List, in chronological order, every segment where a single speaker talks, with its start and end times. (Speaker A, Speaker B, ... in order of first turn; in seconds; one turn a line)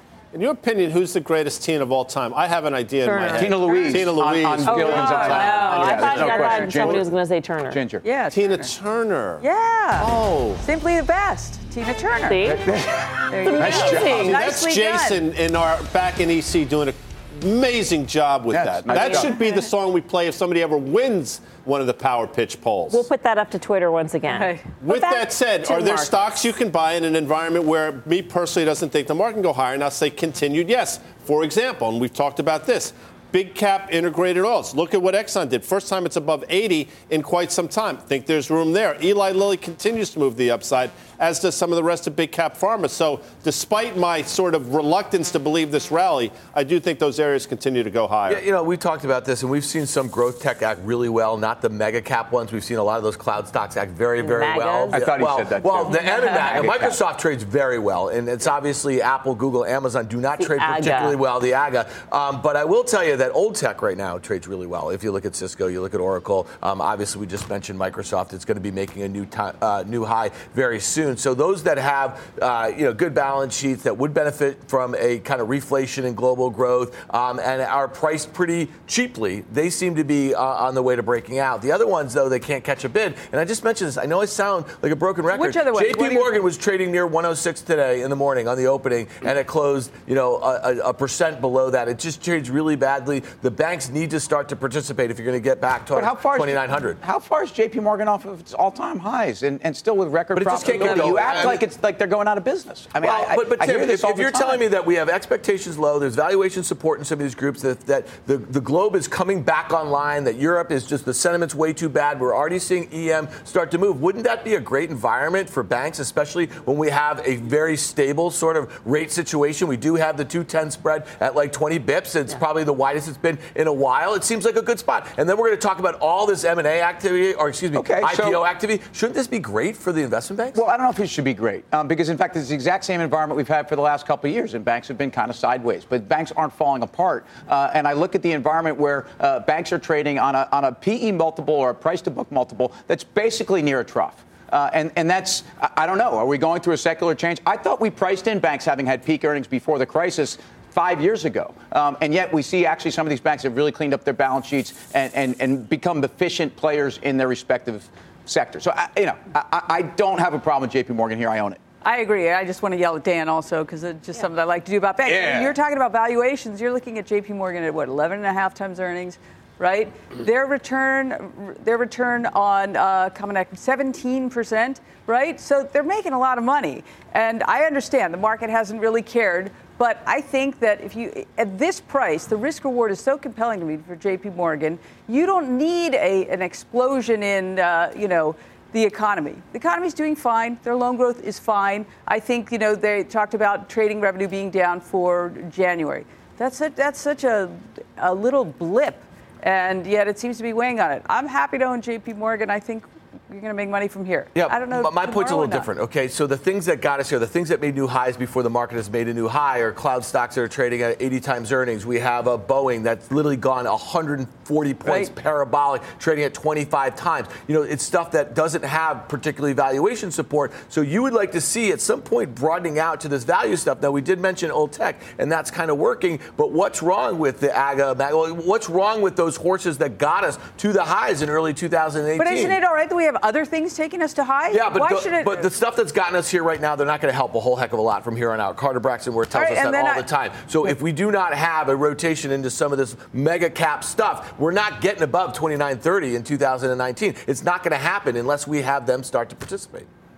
Speaker A: 0.3-5.3
Speaker B: 3.1-3.9
Speaker C: 3.3-7.0
Speaker D: 4.7-7.8
Speaker B: 4.8-6.8
Speaker C: 7.7-8.0
Speaker B: 8.0-8.8
Speaker A: 8.3-9.4
Speaker B: 9.4-12.5
Speaker C: 10.0-10.6
Speaker D: 12.2-12.6
Speaker C: 12.4-14.4
Speaker B: 13.3-15.3
Speaker D: 13.4-14.4
Speaker A: 14.4-23.1
Speaker C: 18.5-19.3
Speaker B: 19.0-19.7
Speaker D: 22.9-25.2
Speaker B: 24.3-26.3
Speaker A: 24.8-48.4
Speaker E: 48.3-97.0
Speaker D: 54.2-55.0
Speaker C: 54.9-57.0
Speaker D: 60.4-61.2
Speaker B: 85.3-86.4
Speaker C: 95.9-104.6
Speaker E: 100.3-101.6
Speaker E: 103.0-130.6
Speaker C: 127.7-128.4
Speaker C: 130.5-161.6
Speaker B: 161.8-205.7
Speaker C: 165.1-165.5
Speaker E: 204.3-232.6
Speaker B: 232.2-235.5
Speaker E: 234.5-249.9
Speaker B: 239.3-240.1